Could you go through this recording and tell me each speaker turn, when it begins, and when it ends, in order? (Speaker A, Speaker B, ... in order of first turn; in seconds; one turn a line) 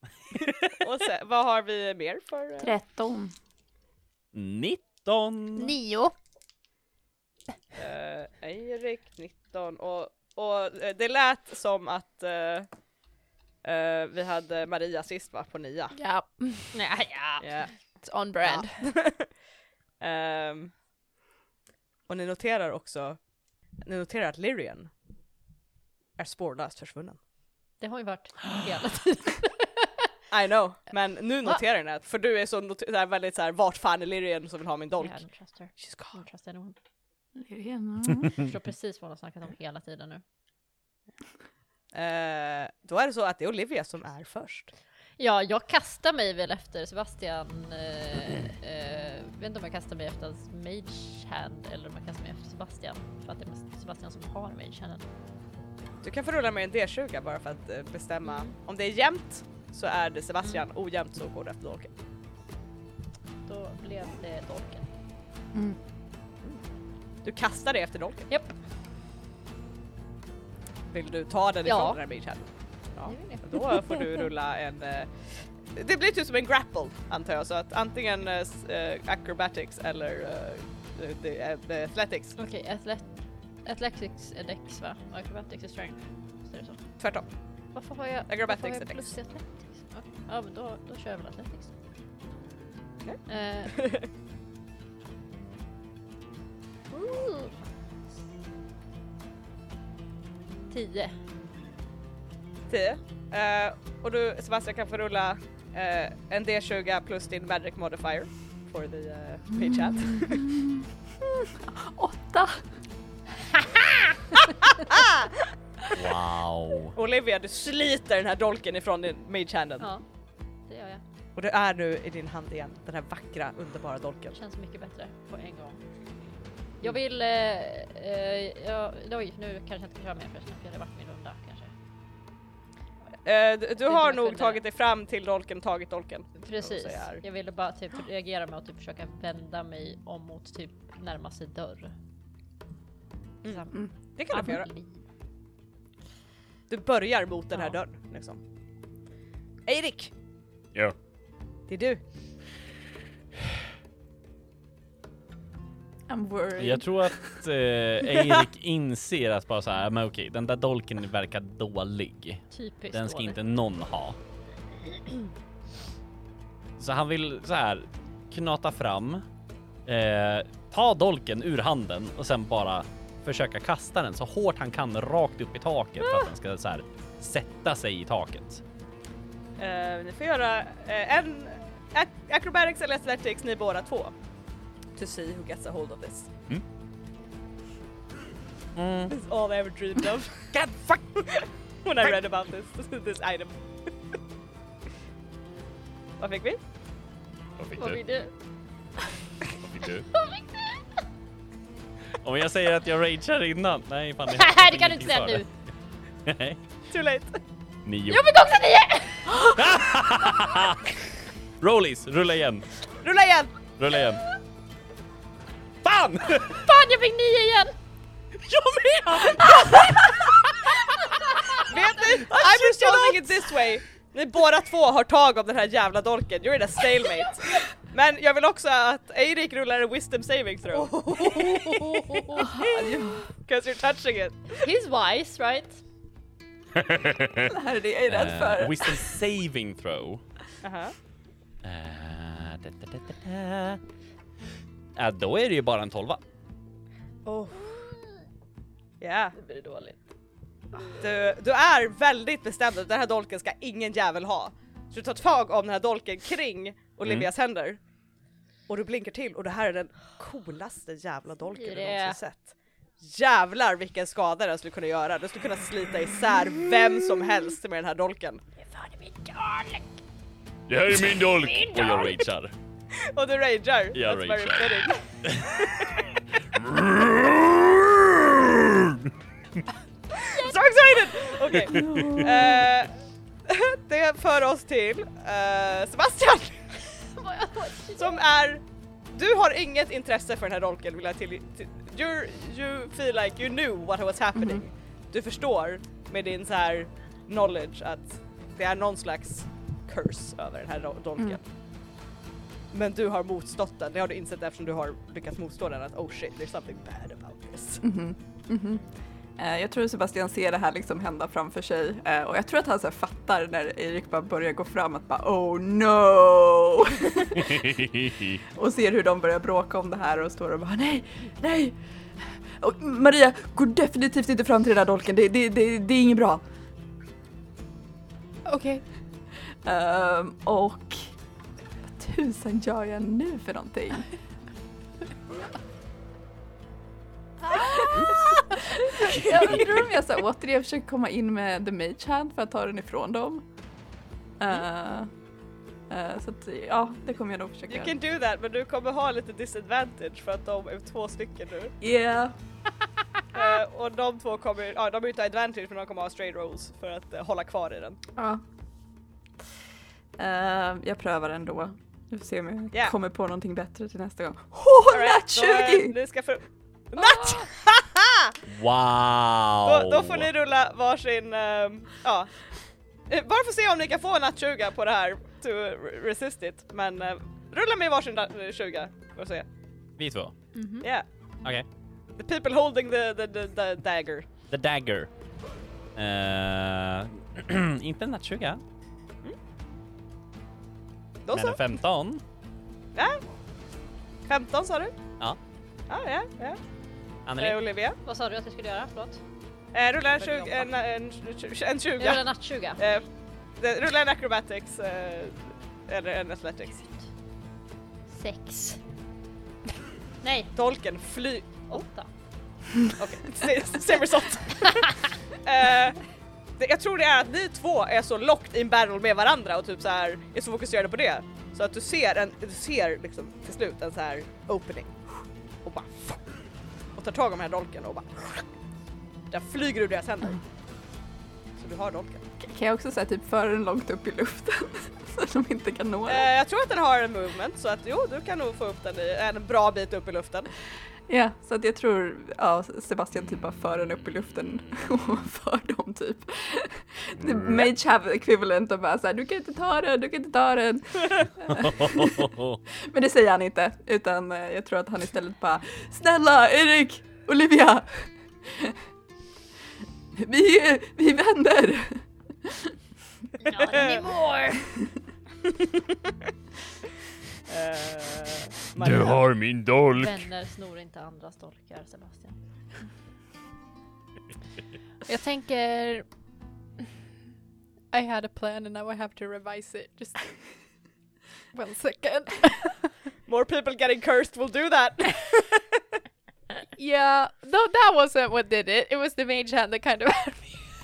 Speaker A: 0.8-2.7
Speaker B: 2.6-3.3
Speaker C: 4.3-5.7
Speaker D: 5.6-6.1
Speaker A: 7.7-12.7
Speaker A: 13.6-15.9
Speaker D: 15.9-16.7
Speaker E: 16.7-17.6
Speaker A: 17.4-17.7
Speaker D: 18.0-18.9
Speaker A: 18.4-19.3
Speaker A: 20.0-20.7
Speaker A: 22.1-23.2
Speaker A: 23.8-24.9
Speaker A: 26.2-27.2
Speaker E: 27.8-29.9
Speaker A: 30.3-35.2
Speaker E: 35.0-36.8
Speaker A: 35.8-36.2
Speaker B: 37.4-38.4
Speaker E: 38.3-40.2
Speaker A: 41.9-44.7
Speaker E: 45.2-55.0
Speaker A: 56.0-61.9
Speaker E: 58.2-58.5
Speaker E: 63.5-64.9
Speaker A: 67.2-68.3
Speaker E: 68.3-68.5
Speaker A: 70.9-82.4
Speaker E: 71.6-72.0
Speaker E: 73.1-74.2
Speaker E: 82.4-83.0
Speaker E: 83.6-86.8
Speaker A: 87.0-87.2
Speaker E: 87.7-91.7
Speaker A: 88.3-89.1
Speaker A: 93.0-94.1
Speaker E: 93.3-93.8
Speaker E: 96.9-97.5
Speaker E: 100.7-101.1
Speaker A: 102.7-110.5
Speaker B: 109.6-112.6
Speaker A: 114.8-115.3
Speaker C: 115.9-116.9
Speaker A: 116.9-119.9
Speaker E: 120.7-121.0
Speaker A: 121.3-124.4
Speaker E: 124.3-125.8
Speaker E: 126.8-131.7
Speaker A: 133.2-137.2
Speaker E: 133.8-134.6
Speaker E: 136.4-141.9
Speaker A: 143.4-144.7
Speaker E: 143.4-143.7
Speaker E: 144.3-145.0
Speaker A: 146.7-148.4
Speaker A: 149.7-150.1
Speaker A: 151.7-152.0
Speaker B: 156.1-157.3
Speaker C: 156.6-164.2
Speaker E: 162.5-163.4
Speaker C: 166.8-169.2
Speaker C: 169.8-178.6
Speaker A: 179.6-184.1
Speaker A: 184.9-186.3
Speaker C: 188.7-189.1
Speaker A: 189.1-190.6
Speaker C: 190.5-191.0
Speaker A: 191.1-193.6
Speaker A: 196.2-196.6
Speaker F: 197.6-197.9
Speaker E: 197.8-198.3
Speaker F: 199.8-200.0
Speaker E: 200.1-200.8
Speaker C: 202.2-205.4
Speaker E: 204.3-205.5
Speaker C: 206.2-206.6
Speaker A: 206.9-207.4
Speaker C: 207.8-208.2
Speaker E: 208.1-209.5
Speaker C: 209.4-210.9
Speaker C: 211.6-212.7
Speaker A: 213.0-213.6
Speaker C: 213.8-214.2
Speaker C: 215.8-216.6
Speaker E: 216.4-217.7
Speaker C: 218.4-220.2
Speaker E: 221.3-221.6
Speaker A: 221.7-234.6
Speaker C: 222.5-222.9
Speaker E: 230.8-232.5
Speaker B: 232.4-233.3
Speaker E: 234.6-235.8
Speaker B: 237.5-239.1
Speaker C: 238.1-240.2
Speaker A: 240.6-240.9
Speaker C: 241.6-243.8
Speaker C: 244.9-246.2
Speaker A: 247.2-247.7
Speaker A: 249.0-249.4
Speaker E: 249.4-250.0
Speaker A: 251.0-257.8
Speaker C: 257.0-257.3
Speaker A: 258.7-268.4
Speaker E: 261.5-262.2
Speaker E: 268.6-269.9
Speaker F: 270.7-271.6
Speaker C: 270.9-272.5
Speaker E: 271.3-272.2
Speaker A: 273.1-275.0
Speaker C: 273.9-275.8
Speaker F: 276.7-278.9
Speaker A: 280.2-282.9
Speaker B: 281.7-282.6
Speaker A: 283.5-286.8
Speaker E: 287.1-288.2
Speaker A: 287.9-301.4
Speaker B: 294.3-294.6
Speaker A: 302.7-307.8
Speaker B: 307.8-308.8
Speaker B: 309.4-317.7
Speaker B: 318.5-326.4
Speaker D: 328.4-328.8
Speaker B: 329.6-331.1
Speaker B: 331.9-334.1
Speaker B: 337.6-343.4
Speaker C: 339.1-339.6
Speaker B: 344.4-345.1
Speaker B: 345.9-347.9
Speaker A: 347.7-351.7
Speaker B: 351.8-352.3
Speaker A: 353.3-358.0
Speaker B: 358.2-358.4
Speaker B: 360.2-366.0
Speaker A: 364.9-368.4
Speaker E: 367.0-367.4
Speaker C: 368.4-370.3
Speaker A: 369.6-372.3
Speaker A: 373.1-379.4
Speaker C: 380.0-380.3
Speaker D: 380.5-380.9
Speaker A: 382.1-384.3
Speaker C: 384.5-385.1
Speaker C: 385.9-388.6
Speaker A: 391.2-391.6
Speaker C: 391.3-392.2
Speaker A: 392.9-393.2
Speaker A: 394.3-394.9
Speaker A: 395.9-396.6
Speaker C: 397.2-397.6
Speaker A: 397.4-398.0
Speaker E: 398.0-399.2
Speaker A: 399.7-402.2
Speaker E: 400.2-400.7
Speaker E: 402.0-402.8
Speaker A: 402.8-403.1
Speaker A: 403.6-406.8
Speaker E: 408.1-408.8
Speaker E: 410.2-410.5
Speaker A: 410.5-411.8
Speaker E: 411.7-412.1
Speaker A: 413.0-416.0
Speaker A: 416.6-424.9
Speaker A: 425.6-426.2
Speaker A: 426.9-428.4
Speaker A: 429.3-430.4
Speaker A: 431.6-432.2
Speaker B: 432.4-436.3
Speaker A: 436.1-440.5
Speaker B: 441.1-452.2
Speaker C: 451.5-452.6
Speaker B: 452.9-458.8
Speaker B: 460.1-462.7
Speaker E: 463.4-464.6
Speaker A: 463.5-464.1
Speaker A: 465.4-465.8
Speaker A: 467.5-469.2
Speaker F: 468.8-470.3
Speaker E: 470.0-472.4
Speaker D: 475.1-476.1
Speaker D: 477.9-480.3
Speaker D: 481.5-482.9
Speaker A: 483.3-485.8
Speaker D: 486.8-490.7